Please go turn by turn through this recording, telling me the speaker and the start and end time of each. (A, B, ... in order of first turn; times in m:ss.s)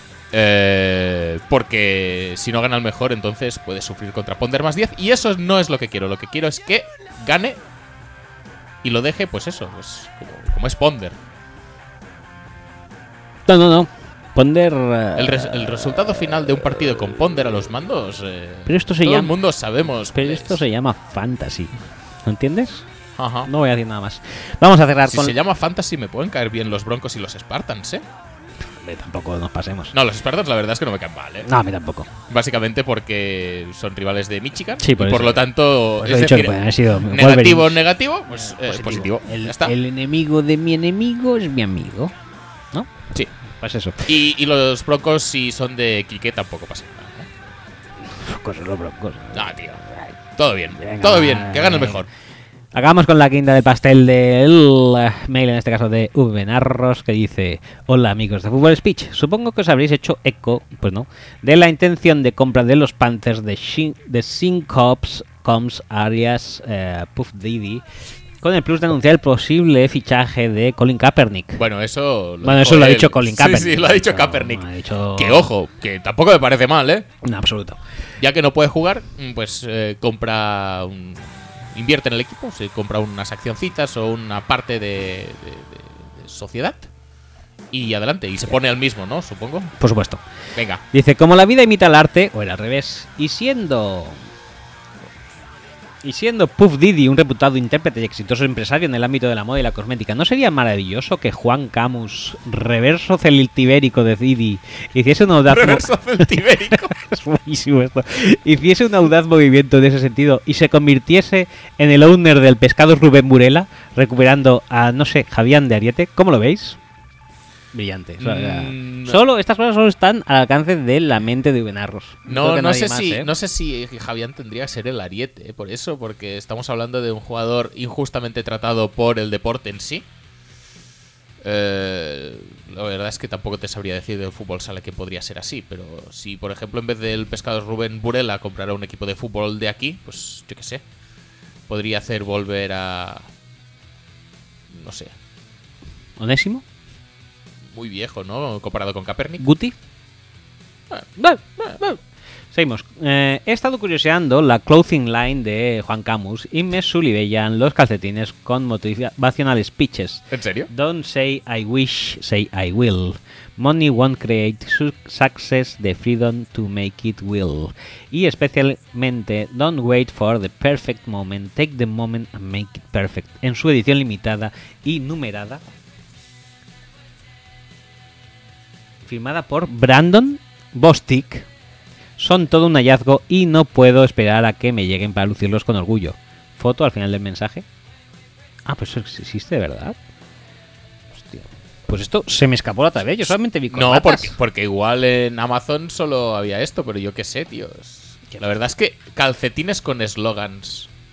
0:00.3-0:07.6 A
0:08.8-0:11.2 A
0:13.4-0:16.0 B
0:15.2-0:20.6 A
0:18.6-0:19.4 B
0:20.1-0:21.7 B
0:22.2-0:22.9 B
0:23.2-0:23.5 A
0:23.5-0:25.4 B
0:25.0-0:28.0 A
0:28.6-0:29.9 B
0:29.9-0:31.5 A
0:31.4-0:32.1 B
0:32.3-0:39.7 A
0:34.8-0:42.1 B
0:43.5-0:44.1 B
0:44.0-0:47.3 A
0:48.0-0:50.1 B
0:49.3-0:49.8 A
0:50.4-0:52.1 A
0:50.8-0:52.0 B
0:52.7-1:07.8 B
1:08.4-1:11.6 B
1:11.6-1:17.1 A
1:12.4-1:15.5 B
1:17.2-1:17.8 B
1:18.2-1:26.9 A
1:27.7-1:29.7 A
1:29.8-1:30.2 B
1:30.5-1:30.8 A
1:30.9-1:34.2 B
1:36.0-1:56.8 B
1:45.4-1:47.0 A
1:57.7-2:03.3 B
1:58.2-1:59.2 A
2:02.3-2:10.0 A
2:11.4-2:20.8 A
2:21.7-2:23.3 A
2:24.7-2:25.1 A
2:26.2-2:26.6 B
2:27.7-2:29.4 A
2:29.4-2:29.8 B
2:31.2-2:32.0 B
2:32.5-2:55.6 B
2:40.3-2:40.7 A
2:59.0-3:01.5 B
3:02.2-3:07.6 B
3:08.6-3:10.0 B
3:11.1-3:14.4 B
3:13.7-3:20.9 A